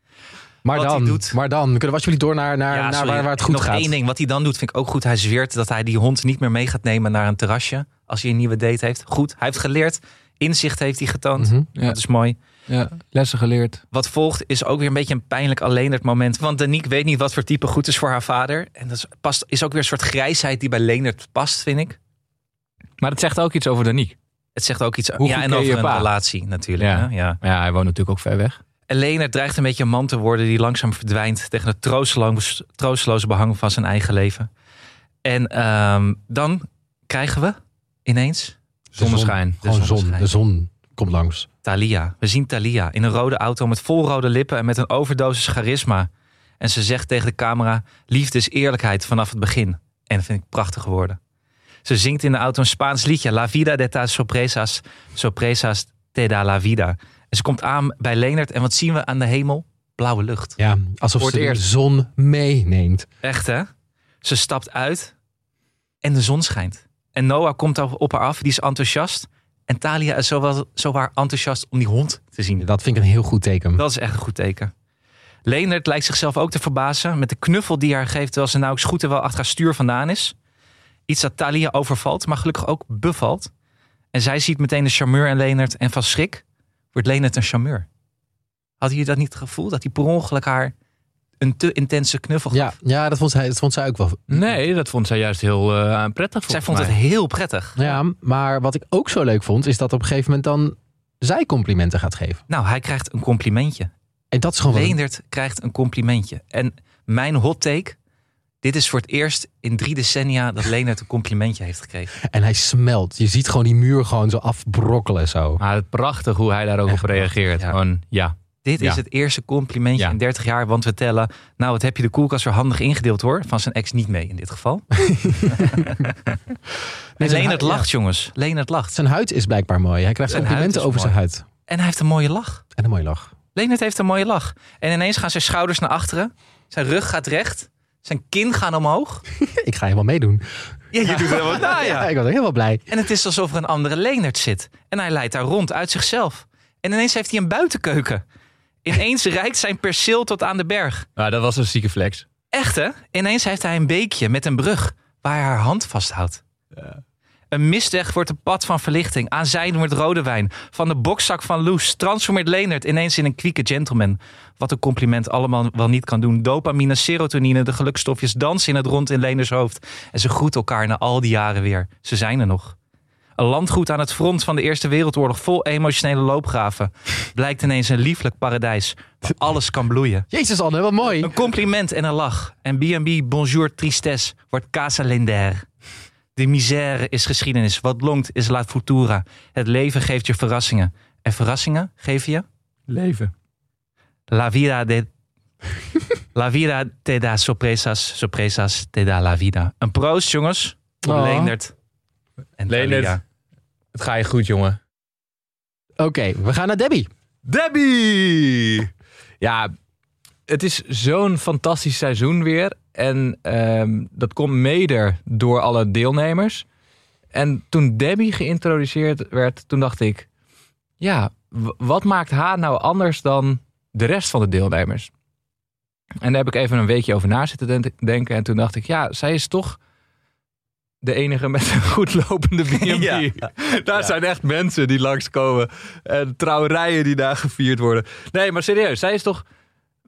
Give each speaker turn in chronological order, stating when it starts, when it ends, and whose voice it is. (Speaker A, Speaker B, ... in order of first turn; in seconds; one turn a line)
Speaker A: 0.6-3.9
Speaker B: 0.7-1.4
Speaker B: 2.7-12.4
Speaker A: 11.4-11.7
Speaker C: 12.7-13.8
Speaker B: 13.9-22.0
Speaker C: 23.0-24.1
Speaker B: 24.6-27.4
Speaker C: 25.2-26.1
Speaker C: 26.8-28.6
Speaker B: 28.9-34.5
Speaker B: 35.2-38.6
Speaker A: 38.9-41.5
Speaker C: 39.0-39.6
Speaker B: 39.6-40.3
Speaker B: 41.6-46.1
Speaker B: 46.6-51.2
Speaker B: 51.8-60.6
Speaker A: 60.6-63.1
Speaker C: 61.2-61.6
Speaker B: 63.2-63.7
Speaker B: 64.2-65.1
Speaker B: 66.0-72.7
Speaker A: 72.6-73.8
Speaker B: 73.8-74.7
Speaker B: 75.5-80.3
Speaker B: 81.1-83.5
Speaker B: 84.1-87.8
Speaker B: 88.8-90.7
Speaker B: 91.4-92.7
Speaker A: 92.5-94.6
Speaker C: 94.3-97.0
Speaker B: 96.5-97.8
Speaker A: 97.8-102.4
Speaker B: 102.5-103.9
Speaker A: 104.3-105.0
Speaker B: 104.7-108.0
Speaker B: 108.6-112.1
Speaker A: 112.2-115.6
Speaker C: 115.6-119.0
Speaker A: 116.9-117.3
Speaker B: 118.6-124.9
Speaker A: 125.1-125.9
Speaker B: 125.4-126.3
Speaker A: 127.2-127.9
Speaker B: 127.2-128.9
Speaker A: 128.9-131.4
Speaker B: 130.3-131.1
Speaker B: 131.7-132.6
Speaker A: 132.7-133.3
Speaker B: 133.5-139.2
Speaker A: 139.3-140.4
Speaker B: 140.9-142.1
Speaker A: 141.0-142.9
Speaker B: 142.9-148.2
Speaker B: 148.8-151.1
Speaker C: 151.2-152.2
Speaker B: 152.5-156.4
Speaker B: 157.5-172.8
Speaker B: 173.4-180.3
Speaker A: 180.3-181.3
Speaker B: 181.2-185.7
Speaker B: 186.3-192.4
Speaker C: 192.9-193.3
Speaker B: 194.3-195.1
Speaker B: 196.3-201.7
Speaker A: 201.0-201.5
Speaker B: 202.6-203.2
Speaker C: 202.7-203.2
Speaker C: 203.9-204.8
Speaker A: 206.0-207.1
Speaker C: 207.4-208.9
Speaker C: 209.4-209.7
Speaker C: 210.5-216.6
Speaker C: 217.3-220.3
Speaker C: 221.0-225.1
Speaker C: 226.2-229.8
Speaker C: 231.0-239.4
Speaker B: 232.7-234.1